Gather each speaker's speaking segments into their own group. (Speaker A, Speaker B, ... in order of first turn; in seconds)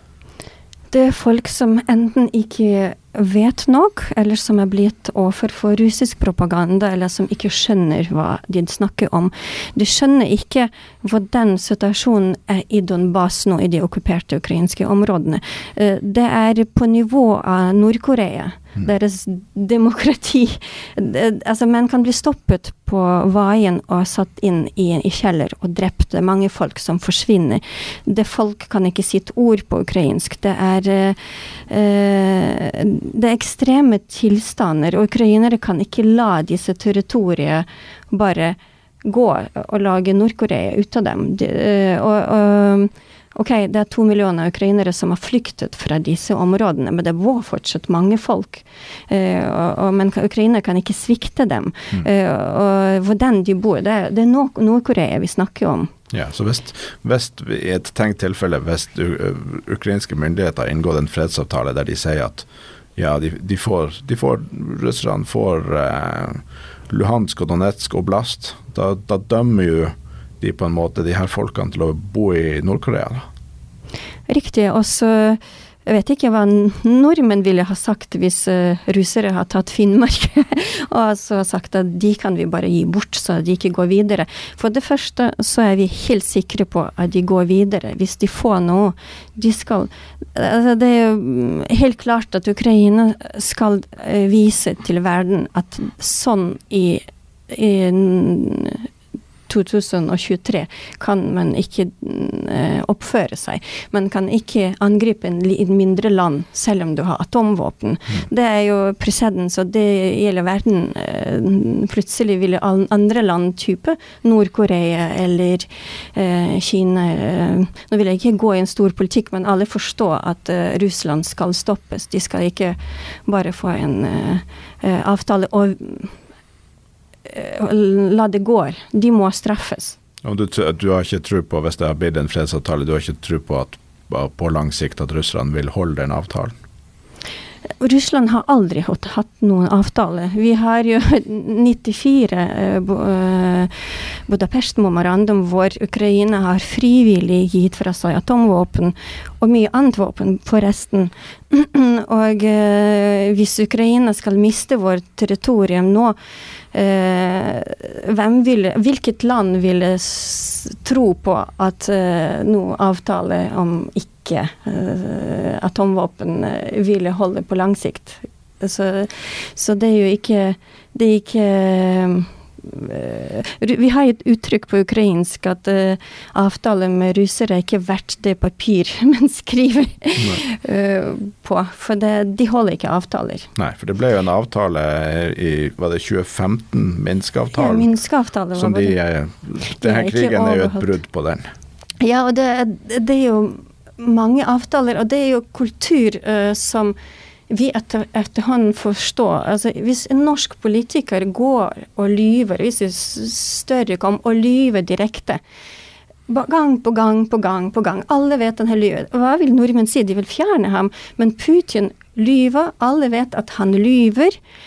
Speaker A: 0.9-55.9, 74.3-98.9, 99.5-126.1, 127.3-129.9, 137.8-156.2, 156.7-183.5, 187.5-188.9, 189.7-190.9, 192.0-196.9, 197.5-205.4, 206.3-214.4
Speaker B: 56.1-73.3, 130.2-136.5, 183.6-187.9, 188.5-191.4